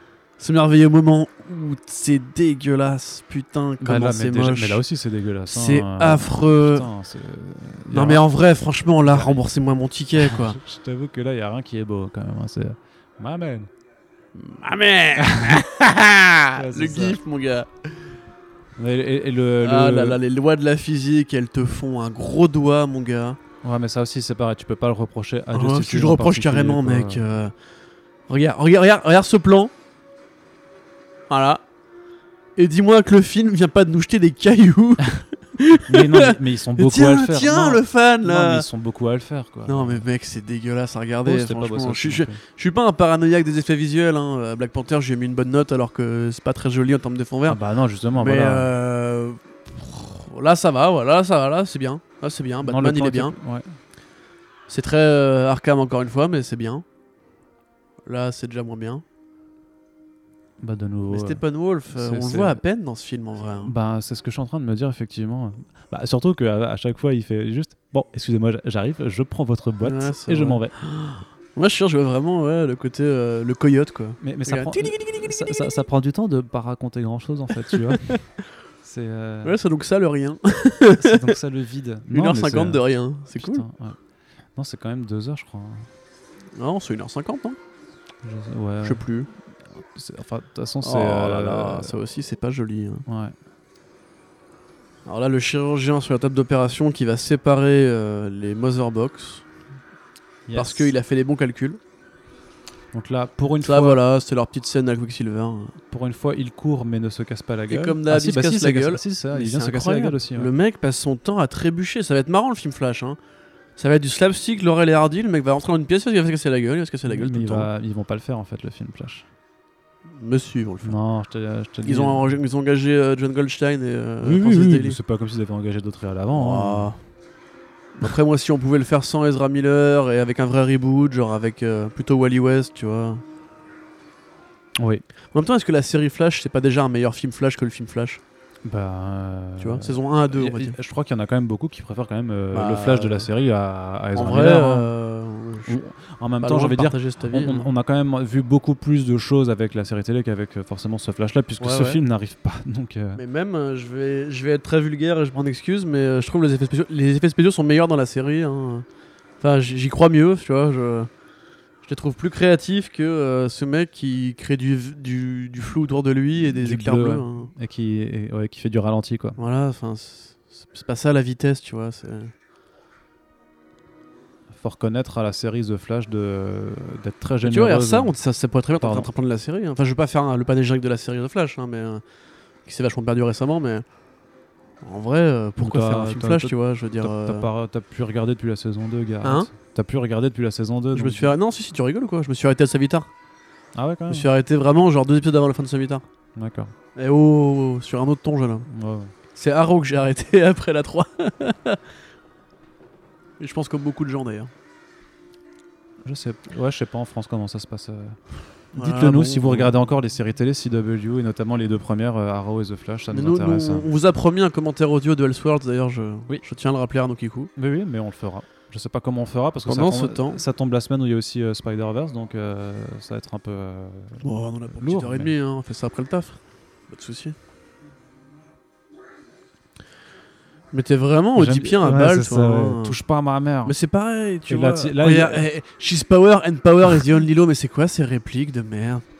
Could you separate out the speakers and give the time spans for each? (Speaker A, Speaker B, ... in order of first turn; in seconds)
Speaker A: 0.4-4.8, 5.5-6.9, 7.9-10.6, 14.3-18.1, 19.6-23.4, 25.5-27.5, 28.3-29.7, 31.3-31.6, 32.6-38.7, 39.7-47.6, 48.1-53.4, 54.7-56.9, 58.0-59.0, 61.1-63.7, 69.8-75.7, 77.7-78.2, 79.4-81.4, 82.1-83.7, 86.6-87.6, 88.8-89.3, 90.8-93.1, 95.1-99.5, 100.5-101.8, 103.6-105.8, 107.7-113.2, 113.8-117.7, 120.1-121.0, 121.8-125.0, 126.3-127.0, 128.0-133.2, 135.3-138.2, 139.6-140.8, 142.5-143.3, 144.2-145.8, 146.4-147.7, 151.6-152.0, 153.2-158.9, 159.4-161.1, 161.8-167.5, 169.4-172.3, 177.4-182.0, 182.7-183.8, 184.8-187.5, 189.2-189.5, 190.9-193.1, 194.1-196.1, 196.9-198.7, 199.3-201.8, 203.4-204.5, 208.7-209.7, 213.1-217.5, 219.7-220.4, 224.2-227.4, 230.7-233.0, 233.6-239.0
Speaker B: 3.8-8.2, 9.1-9.5, 10.2-13.7, 15.2-15.6, 16.6-17.2, 18.8-20.2, 23.6-27.2, 35.9-40.0, 41.2-42.4, 47.5-48.7, 52.6-53.8, 60.6-62.6, 63.6-70.8, 74.2-78.2, 78.8-79.6, 81.0-84.0, 84.6-85.9, 88.2-89.0, 89.7-92.0, 93.1-93.4, 100.5-100.9, 102.9-104.0, 105.9-110.5, 117.1-119.3, 120.8-122.3, 124.2-126.9, 134.8-135.1, 138.6-144.9, 145.7-153.2, 166.4-169.4, 174.5-178.1, 178.8-179.1, 185.6-191.3, 193.8-194.3, 196.4-196.7, 198.7-199.1, 206.0-208.2, 208.7-213.9, 217.6-225.3, 231.4-233.8, 234.5-235.5